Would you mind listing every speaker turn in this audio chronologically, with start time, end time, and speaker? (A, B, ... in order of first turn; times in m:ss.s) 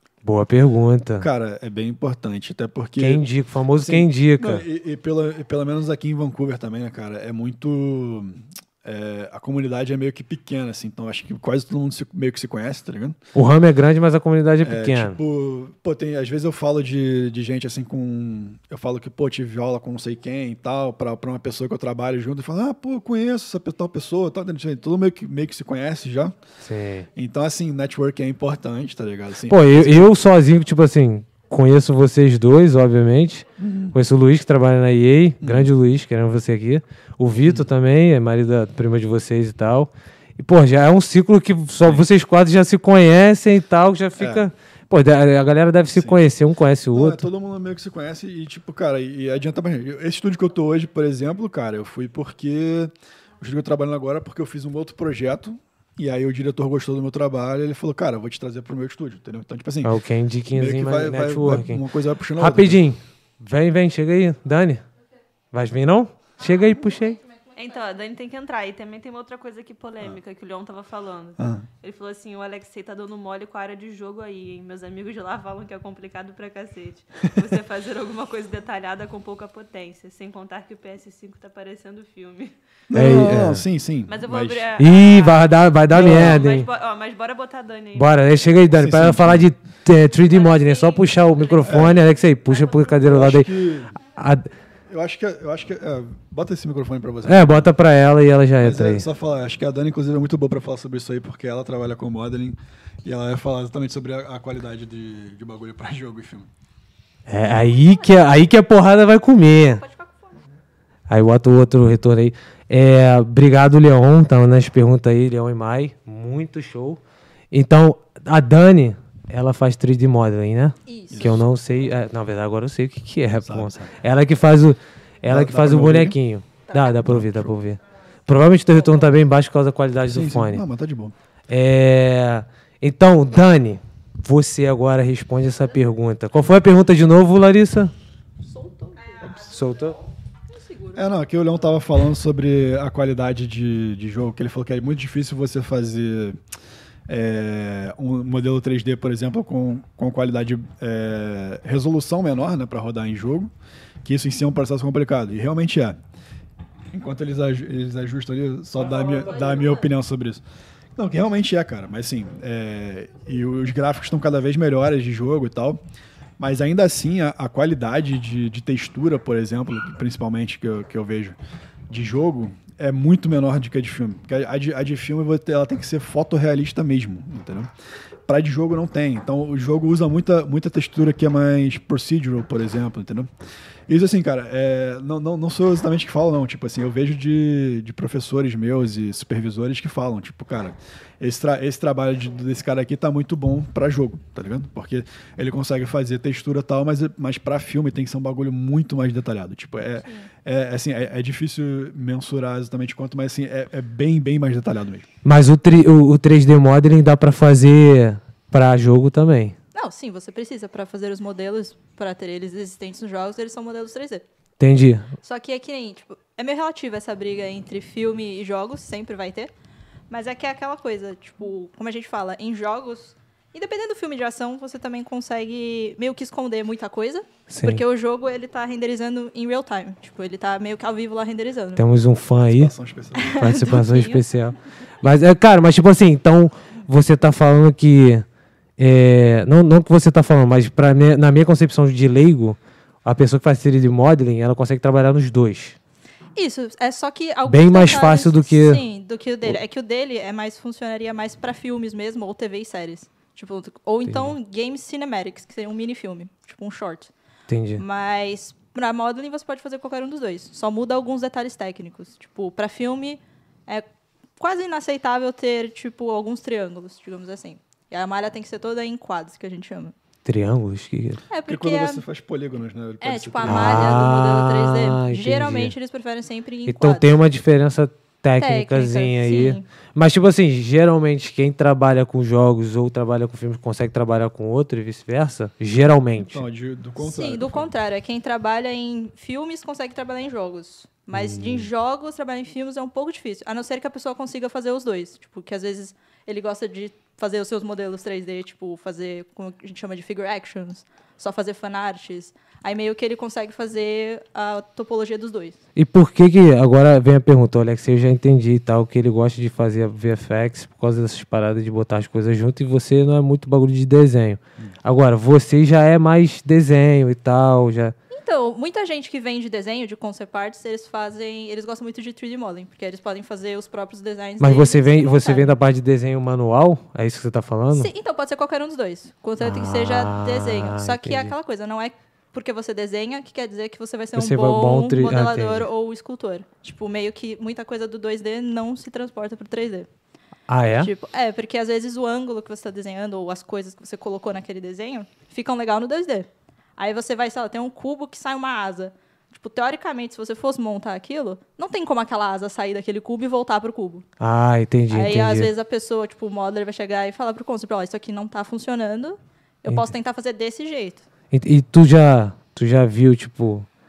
0:00.2-0:01.3 A
0:01.2-0:13.2 B
0:03.0-0:04.6 A
0:13.3-0:15.2 A
0:14.6-0:26.4 B
0:26.6-0:27.1 A
0:27.1-0:30.1 B
0:29.5-0:47.3 A
0:33.6-0:33.9 B
0:35.4-0:35.7 B
0:44.2-0:44.5 B
0:45.9-0:46.2 B
0:46.9-1:00.0 B
0:59.8-1:01.8 A
1:00.5-1:02.8 B
1:02.4-1:04.8 A
1:05.5-1:07.2 A
1:07.5-1:22.5 C
1:11.4-1:11.6 B
1:22.9-1:24.7 B
1:22.9-1:23.6 A
1:24.1-1:28.4 C
1:24.8-1:26.7 A
1:25.9-1:26.4 B
1:27.9-1:33.5 A
1:28.7-1:29.5 B
1:30.2-1:33.0 C
1:31.6-1:32.0 B
1:33.0-1:33.9 B
1:34.2-1:34.5 A
1:34.9-1:37.7 B
1:37.2-1:39.0 A
1:38.6-1:46.5 B
1:47.3-1:49.8 A
1:47.6-1:48.4 D
1:49.7-1:50.4 D
1:51.1-1:57.0 A
1:57.5-2:10.6 A
2:00.8-2:01.4 D
2:01.1-2:01.4 B
2:03.4-2:03.9 B
2:05.2-2:06.2 B
2:07.0-2:07.6 B
2:08.7-2:09.1 D
2:10.0-2:11.1 B
2:11.5-2:17.9 A
2:18.4-2:19.3 D
2:19.0-2:20.1 C
2:19.3-2:19.9 A
2:20.5-2:21.0 D
2:20.9-2:26.4 B
2:27.1-2:33.5 B
2:34.0-2:36.0 B
2:36.9-2:40.4 B
2:38.8-2:39.9 C
2:41.0-2:45.8 B
2:46.4-2:51.4 B
2:51.9-2:57.7 B
2:58.3-3:03.3 B
3:03.9-3:25.1 B
3:20.0-3:20.3 D
3:25.2-3:29.6 A
3:29.7-3:34.2 D
3:34.6-3:35.1 A
3:35.2-3:39.5 D
3:40.1-3:51.8 D
3:47.5-3:47.8 A
3:51.8-3:52.7 A
3:52.4-3:53.7 B
3:53.1-3:54.2 D
3:53.3-3:58.2 A
3:58.8-4:05.8 A
4:06.3-4:17.1 D
4:07.5-4:08.8 A
4:14.0-4:14.3 A
4:17.5-4:17.8 A
4:17.8-4:23.8 D
4:24.4-4:29.9 D
4:30.2-4:31.2 A
4:31.3-4:32.0 D
4:31.4-4:34.1 B
4:33.0-4:37.1 D
4:33.4-4:35.7 A
4:36.6-4:46.4 A
4:38.4-4:39.6 D
4:46.2-4:47.7 B
4:47.0-5:05.6 D
4:51.1-4:51.7 A
5:05.8-5:17.9 A
5:18.1-5:25.6 D
5:24.4-5:27.9 A
5:27.7-5:39.9 D
5:29.4-5:31.3 A
5:34.2-5:35.6 A
5:40.5-5:40.9 A
5:40.8-5:54.0 D
5:54.2-5:55.5 A
5:54.9-6:01.0 D
6:01.3-6:03.7 A